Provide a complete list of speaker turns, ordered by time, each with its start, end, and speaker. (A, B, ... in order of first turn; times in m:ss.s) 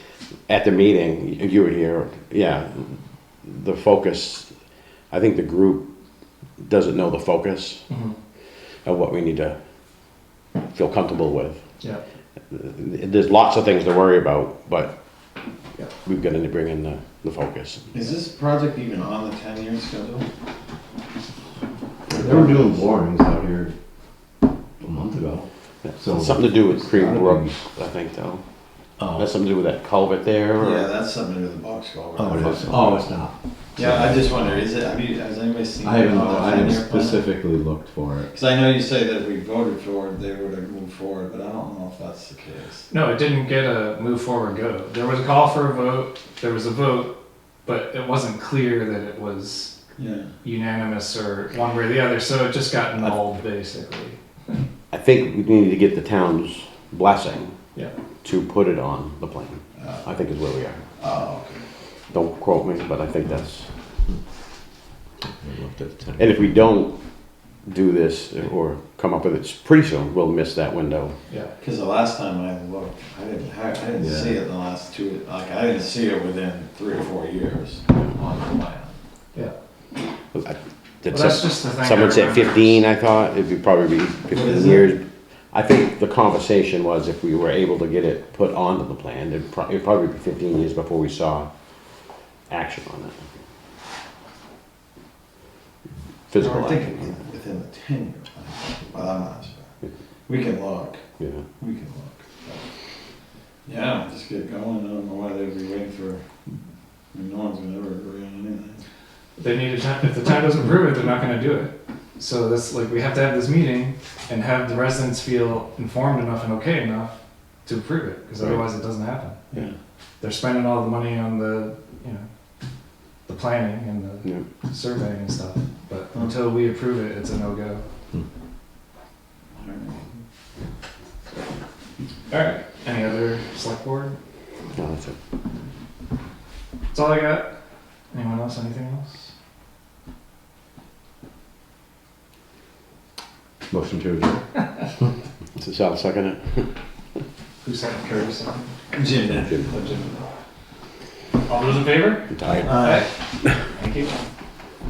0:00.5-0:04.5 A
0:05.1-0:05.9 A
0:06.6-0:07.8 A
0:07.9-0:08.2 B
0:08.8-0:09.6 A
0:10.7-0:11.6 A
0:12.5-0:14.9 A
0:16.0-0:17.9 A
0:17.9-0:20.3 C
0:22.1-0:23.7 D
0:22.1-0:22.8 C
0:22.1-0:22.6 A
0:24.8-0:25.4 D
0:25.8-0:28.4 A
0:26.0-0:27.5 D
0:29.0-0:29.3 D
0:29.1-0:30.9 A
0:30.6-0:33.1 C
0:32.2-0:34.6 D
0:32.4-0:33.0 A
0:33.8-0:37.3 C
0:35.8-0:38.3 D
0:38.3-0:42.9 C
0:42.9-0:49.7 B
0:50.0-0:50.3 C
0:50.4-0:54.6 B
0:54.9-0:57.5 A
0:58.2-1:00.8 A
0:59.8-1:00.1 C
1:01.0-1:01.6 C
1:02.1-1:03.7 A
1:05.2-1:06.2 D
1:06.2-1:06.9 A
1:07.6-1:11.1 A
1:11.6-1:19.0 C
1:14.0-1:14.4 D
1:20.3-1:31.5 A
1:21.1-1:22.8 B
1:24.3-1:24.9 C
1:32.5-1:33.2 A
1:36.3-1:37.1 A
1:36.4-1:39.6 C
1:40.3-1:41.0 C
1:41.2-1:41.4 A
1:41.6-1:42.7 C
1:43.6-1:46.2 C
1:47.1-1:48.8 C
1:49.4-1:59.4 B
1:58.4-1:58.7 A
2:00.2-2:02.3 B
2:03.2-2:07.8 B
2:09.5-2:10.2 C
2:12.3-2:14.2 B
2:14.7-2:15.2 A
2:16.9-2:17.5 B
2:18.1-2:19.3 B
2:23.7-2:24.4 D
2:25.6-2:26.7 A
2:27.6-2:28.8 B
2:28.9-2:30.1 C
2:29.7-2:30.1 B
2:31.4-2:34.1 B
2:32.3-2:32.8 A
2:32.4-2:33.1 C